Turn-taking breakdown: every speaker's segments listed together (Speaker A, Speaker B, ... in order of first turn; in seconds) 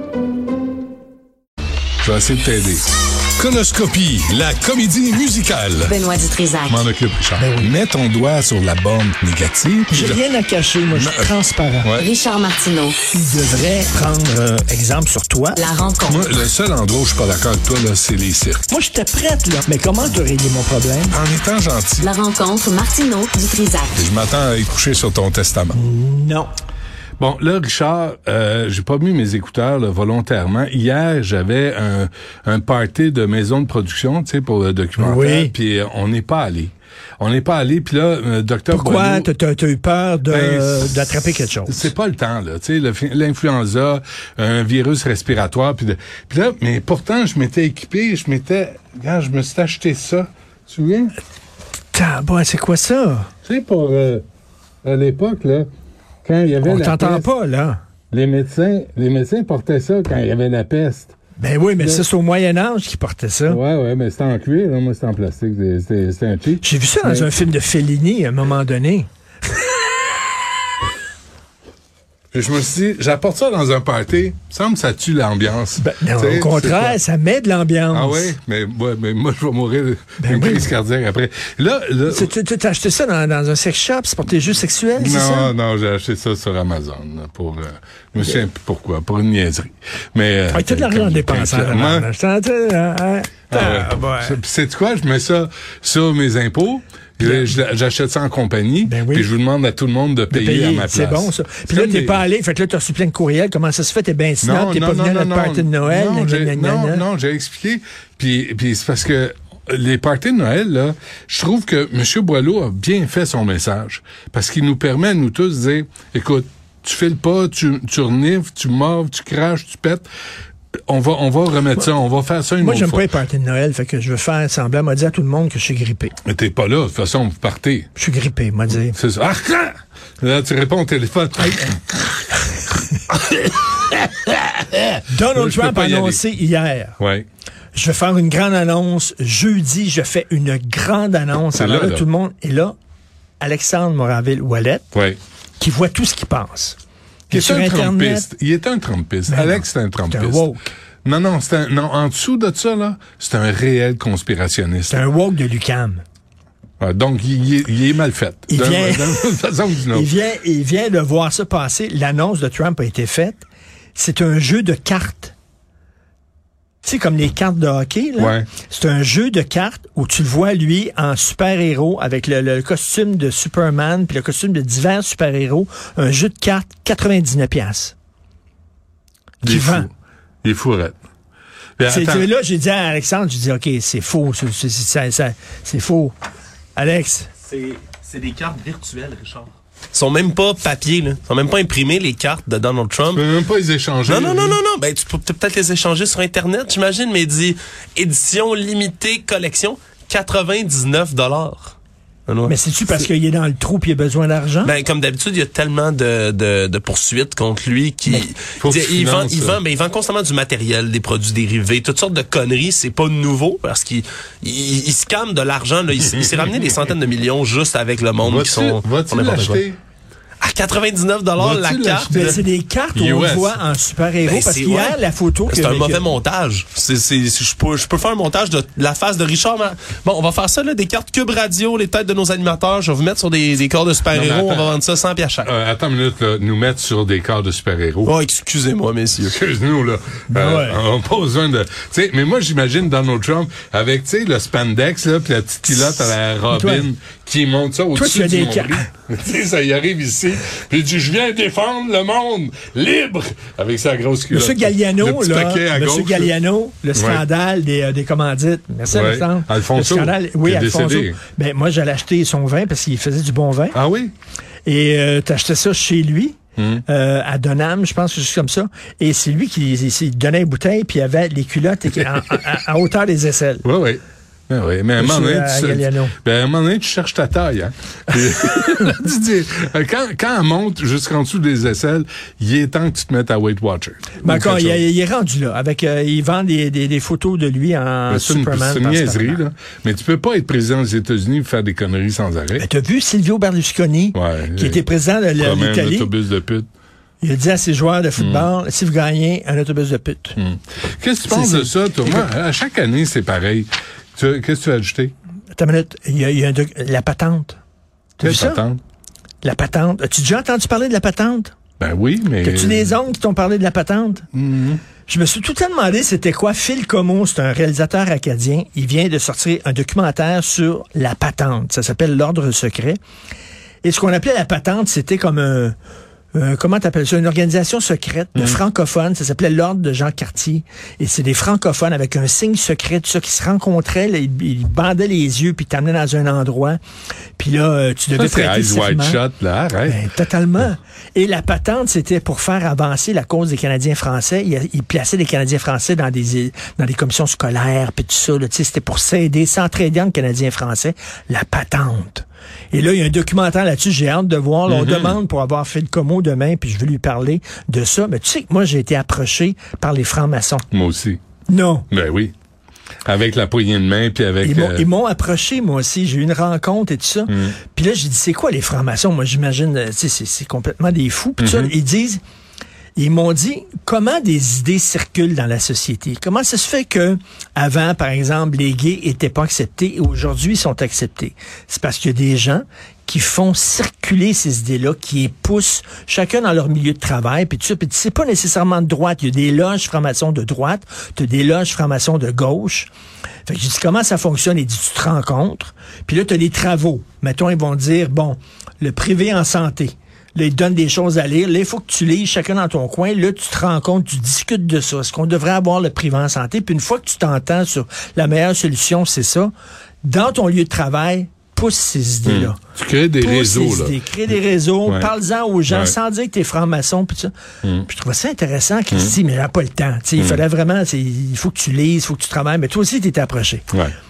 Speaker A: 2.0-6.0, 6.7-10.2, 10.9-12.1, 16.1-18.6, 21.1-22.1, 23.9-25.8, 27.2-39.3, 40.3-51.1, 53.5-54.2, 54.8-55.7, 56.2-57.3, 58.1-61.2, 61.8-62.0, 63.5-67.3, 72.3-77.0, 77.9-82.3, 85.0-92.1, 93.5-102.2, 104.4-120.1, 120.9-123.1, 126.3-127.9, 128.7-132.0, 133.1-136.2, 137.0-137.3, 141.5-142.1, 144.9-145.2, 147.3-150.5, 151.0-155.1, 156.8-160.1, 168.2-168.5, 179.4-179.9, 180.4-181.0, 181.8-182.3, 193.1-194.6, 208.6-209.6, 218.2-219.8, 221.4-222.4, 222.9-223.6, 234.1-234.8, 235.4-238.1, 239.3-256.4, 256.9-257.2, 258.9-261.2, 263.7-264.1, 266.6-266.8, 273.6-284.9, 288.1-292.7, 294.1-294.8, 295.4-296.7, 298.2-298.5, 300.4-305.1, 308.2-308.8, 311.8-312.9, 314.3-314.8, 328.4-328.6, 338.2-340.0, 354.7-355.2, 360.7-361.2, 361.9-362.3, 363.1-364.9, 367.3-367.6, 371.4-371.7, 412.2-414.0, 414.9-415.1, 415.7-415.9, 417.6-417.9, 420.2-420.4
Speaker B: 5.8-6.8, 12.0-13.0, 15.6-16.3, 22.0-24.0
Speaker C: 7.4-7.7, 9.9-11.9, 13.1-15.6, 18.7-21.2, 25.8-26.5, 35.0-35.5, 38.7-41.9, 51.9-53.3, 56.6-57.8, 61.4-63.6, 66.6-69.1, 75.8-78.3, 80.2-80.7, 82.1-85.5, 90.5-94.4, 97.2-97.6, 98.8-99.3, 100.3-107.0, 122.6-126.2, 128.0-129.0, 135.1-137.0, 137.7-142.8, 143.4-144.9, 145.6-146.8, 147.3-148.3, 149.3-150.7, 154.9-156.0, 158.5-165.3, 166.8-177.9, 179.4-179.9, 181.9-186.2, 186.8-187.3, 202.5-204.8, 222.1-226.1, 240.3-240.8, 246.5-246.9, 247.9-248.9, 254.3-263.8, 264.7-273.7, 275.0-276.1, 284.2-289.4, 292.6-296.1, 297.2-300.4, 301.3-302.3, 305.6-307.6, 308.2-308.6, 309.4-311.5, 312.4-314.3, 315.1-323.0, 323.8-325.8, 326.3-336.8, 337.4-339.2, 339.9-360.7, 361.5-361.9, 364.4-372.2, 373.0-392.9, 393.5-409.5, 410.0-412.6, 413.2-417.3, 417.9-423.7
Speaker D: 187.4-193.2, 194.1-201.8, 202.3-202.5, 204.6-219.6, 220.4-222.2, 224.2-235.5, 238.1-239.4